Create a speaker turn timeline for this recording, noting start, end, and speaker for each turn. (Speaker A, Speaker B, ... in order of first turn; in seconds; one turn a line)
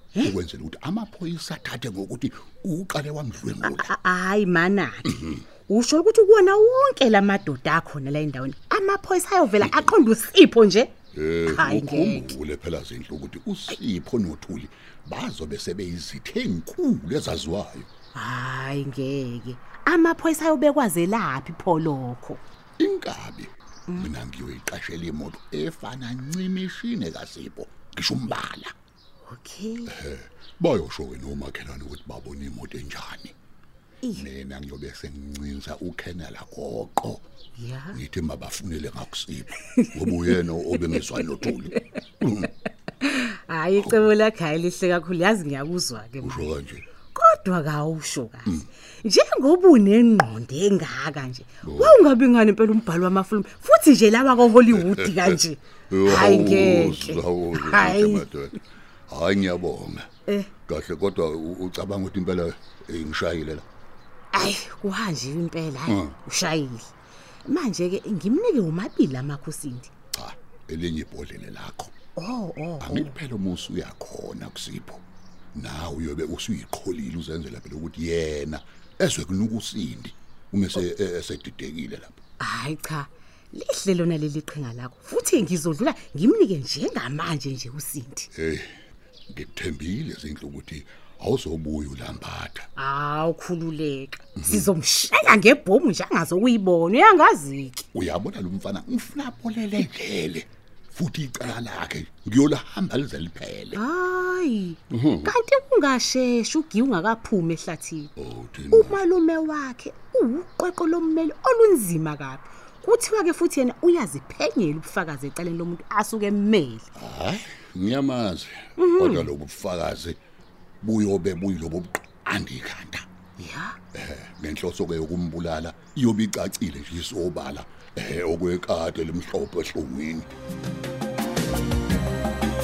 Speaker A: 0.2-3.9
Speaker B: 3.6-10.9
Speaker A: 11.1-17.9
Speaker B: 11.5-12.3
Speaker B: 18.1-22.4
Speaker A: 22.8-28.7
Speaker B: 29.3-29.9
Speaker A: 29.9-33.4
Speaker B: 34.0-34.3
Speaker A: 34.1-37.2
Speaker B: 37.6-38.0
Speaker A: 37.9-42.5
Speaker B: 39.8-41.0
Speaker B: 43.0-46.5
Speaker A: 43.8-44.1
Speaker A: 46.2-46.8
Speaker B: 47.1-58.3
Speaker A: 51.6-51.9
Speaker A: 54.7-58.5
Speaker A: 59.1-60.1
Speaker B: 60.3-60.5
Speaker A: 60.6-63.7
Speaker B: 64.3-66.9
Speaker A: 65.9-66.2
Speaker B: 67.4-69.9
Speaker A: 70.1-71.9
Speaker B: 72.2-73.1
Speaker A: 72.8-82.2
Speaker B: 82.4-88.3
Speaker A: 88.3-92.7
Speaker B: 92.8-97.8
Speaker A: 94.3-94.7
Speaker A: 97.9-103.8
Speaker B: 103.7-108.1
Speaker A: 104.9-105.3
Speaker A: 108.2-109.0
Speaker B: 108.7-116.8
Speaker A: 116.9-120.2
Speaker B: 118.8-119.3
Speaker A: 120.8-123.0
Speaker B: 123.4-123.8
Speaker A: 123.9-130.3